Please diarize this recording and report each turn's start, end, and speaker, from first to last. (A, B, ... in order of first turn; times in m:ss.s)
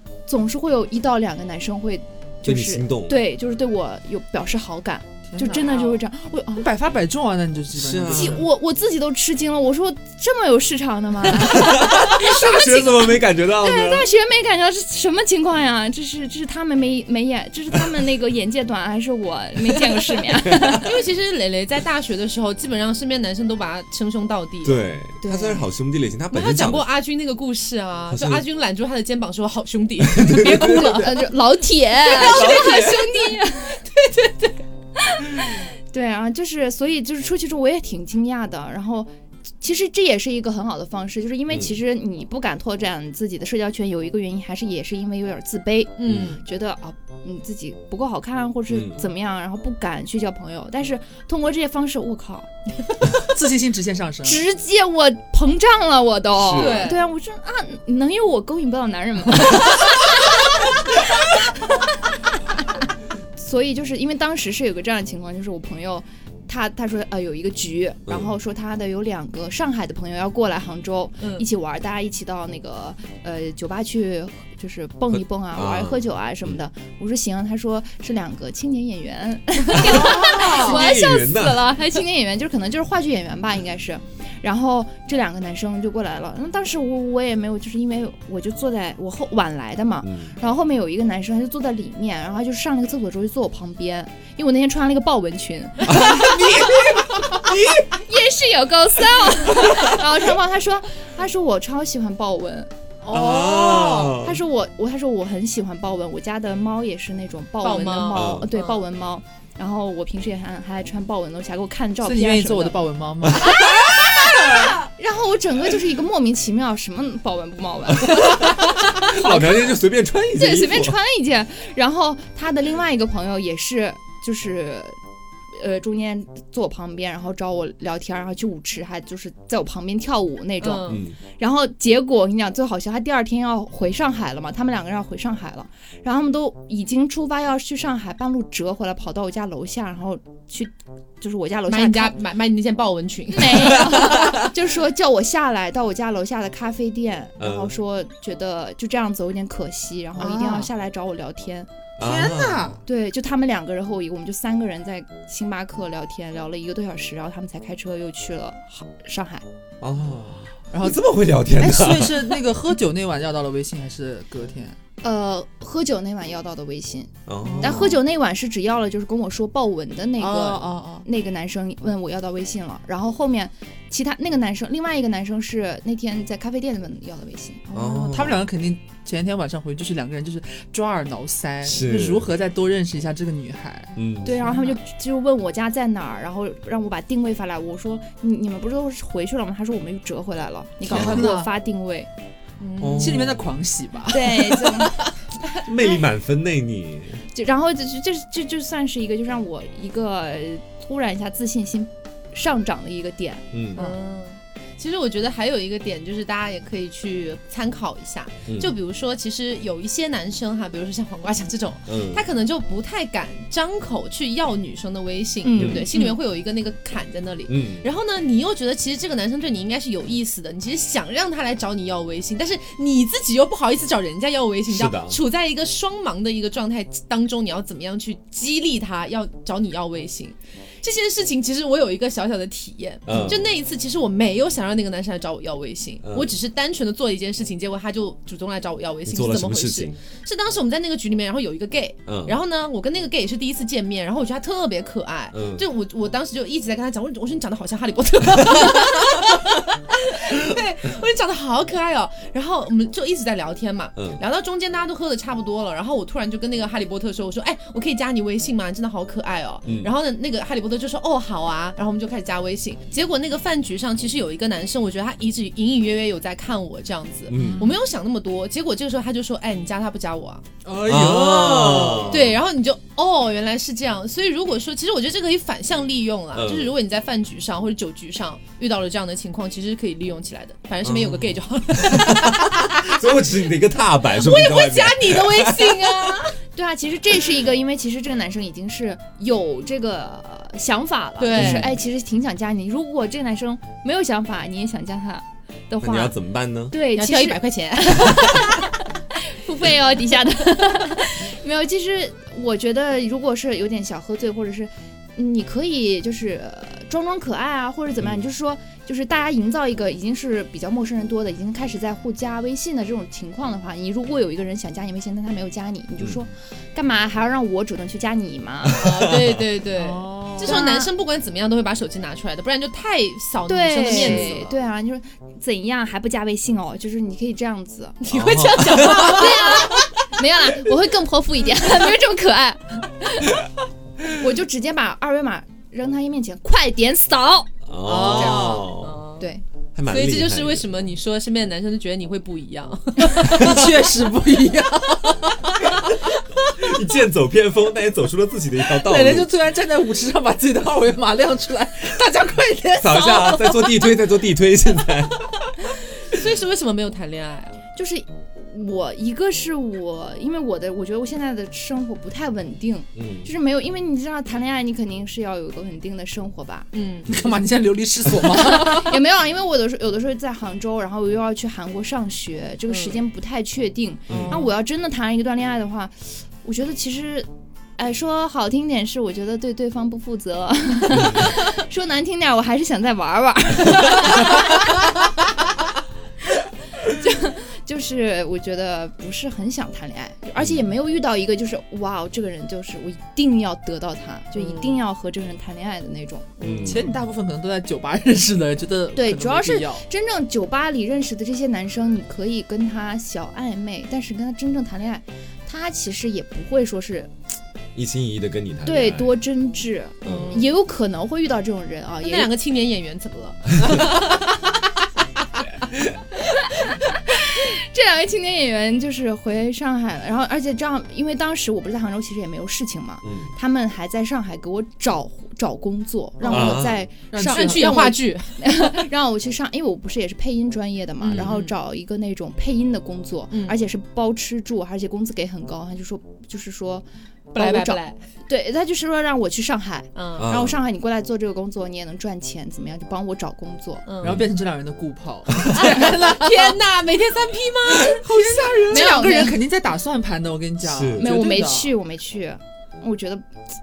0:00.3-0:06.7 A
0:02.4-0:03.2 B
0:05.3-0:06.0 C
0:06.6-0:08.4 C
0:07.7-0:08.4 B
0:08.1-0:20.9 A
0:11.3-0:14.1 B
0:20.4-0:20.8 B
0:20.8-0:24.8 D
0:24.6-0:26.8 B
0:25.2-0:25.7 A
0:26.3-0:31.2 D
0:28.1-0:28.4 B
0:30.0-0:31.0 B
0:30.6-0:33.9 A
0:32.1-0:33.1 D
0:32.1-0:33.0 B
0:33.9-0:34.5 D
0:35.0-0:52.5 A
0:41.5-0:41.8 B
0:46.0-0:46.4 D
0:48.7-0:49.1 B
0:53.2-0:54.4 C
0:54.2-1:01.7 A
0:56.3-0:57.0 B
0:56.5-0:57.0 D
1:03.4-1:42.7 A
1:08.1-1:08.3 B
1:11.2-1:11.4 D
1:15.1-1:16.6 B
1:19.8-1:20.8 D
1:19.9-1:21.7 B
1:30.0-1:30.4 B
1:35.8-1:37.9 B
1:39.6-1:40.0 B
1:43.0-1:44.2 C
1:43.1-1:44.4 B
1:44.2-1:52.8 A
1:47.6-1:48.8 D
1:48.1-1:48.5 B
1:52.0-1:53.5 C
1:53.3-1:59.8 A
1:53.3-1:54.7 B
1:58.0-2:01.0 B
2:00.3-2:05.0 A
2:05.5-2:22.2 A
2:10.6-2:11.0 D
2:10.9-2:11.2 B
2:21.7-2:24.1 D
2:23.3-2:31.7 A
2:23.6-2:24.5 B
2:27.4-2:27.7 B
2:30.2-2:30.7 C
2:32.0-2:32.7 B
2:32.0-2:32.8 C
2:32.8-2:39.4 A
2:39.8-2:42.4 B
2:40.7-2:41.0 C
2:41.5-2:44.8 C
2:45.0-2:58.2 A
2:47.3-2:48.0 B
2:47.4-2:48.0 C
2:50.2-2:51.1 C
2:57.7-2:58.4 B
2:58.0-3:04.8 C
3:01.6-3:02.3 B
3:04.0-3:04.4 B
3:04.2-3:12.1 A
3:10.8-3:11.5 C
3:10.9-3:11.3 B
3:12.6-3:13.3 D
3:12.8-3:13.5 B
3:13.0-3:15.1 C
3:14.1-3:15.0 A
3:15.6-3:17.2 B
3:17.3-3:23.9 A
3:23.5-3:23.8 B
3:23.8-4:30.4 D
3:28.5-3:28.7 B
3:31.9-3:32.2 B
3:35.4-3:35.9 A
3:35.6-3:35.9 B
3:37.5-3:37.9 B
3:44.7-3:45.2 B
3:53.0-3:53.4 B
3:56.0-3:56.3 B
3:59.0-4:00.0 B
4:02.0-4:02.4 B
4:05.3-4:05.6 B
4:08.5-4:08.8 B
4:14.0-4:14.2 B
4:19.6-4:19.9 B
4:27.3-4:27.7 B
4:27.4-4:27.7 C
4:30.6-4:32.2 C
4:30.8-4:32.3 B
4:32.1-4:43.0 D
4:36.3-4:36.7 B
4:40.8-4:46.1 B
4:44.1-4:46.4 D
4:46.5-4:56.2 A
4:51.2-4:51.7 D
4:55.8-4:56.8 B
4:56.7-5:18.9 A
4:56.9-4:58.4 D
5:08.0-5:08.3 B
5:16.0-5:16.2 B
5:18.6-5:19.4 B
5:18.7-5:24.6 D
5:19.8-5:20.6 C
5:20.4-5:20.9 A
5:23.4-5:33.4 A
5:23.9-5:24.4 B
5:28.0-5:29.6 D
5:28.1-5:29.2 B
5:34.0-5:37.5 A
5:37.6-5:39.0 B
5:37.8-5:38.7 C
5:38.1-5:39.3 D
5:39.7-5:40.7 B
5:39.8-5:43.5 D
5:43.1-5:45.7 C
5:43.3-5:43.7 B
5:46.6-5:49.3 B
5:48.7-5:53.7 C
5:52.8-5:55.5 B
5:56.1-5:57.6 D
5:57.7-6:06.7 A
6:03.0-6:03.3 B
6:06.7-6:07.1 D
6:07.1-6:09.0 C
6:08.2-6:24.8 A
6:12.7-6:13.0 D
6:14.1-6:14.4 B
6:20.9-6:21.4 B
6:26.8-6:36.4 A
6:30.4-6:30.7 B
6:34.4-6:34.8 D
6:36.4-6:37.0 B
6:36.6-6:39.8 C
6:38.9-6:47.1 A
6:47.7-6:49.2 B
6:48.6-6:52.3 A
6:50.0-6:50.4 B
6:50.0-6:50.5 D
6:52.0-6:54.3 D
6:56.1-7:23.8 A
7:03.0-7:03.3 B
7:06.2-7:07.8 C
7:06.3-7:06.8 B
7:07.2-7:08.4 D
7:11.0-7:11.5 D
7:13.3-7:13.6 D
7:17.3-7:18.0 D
7:19.9-7:20.3 D
7:20.2-7:20.6 B
7:23.8-7:24.2 D
7:24.0-7:26.6 C
7:24.0-7:24.3 B
7:25.5-7:29.3 D
7:27.7-7:31.7 C
7:28.7-7:29.4 A
7:30.6-7:31.1 B
7:30.9-7:33.2 A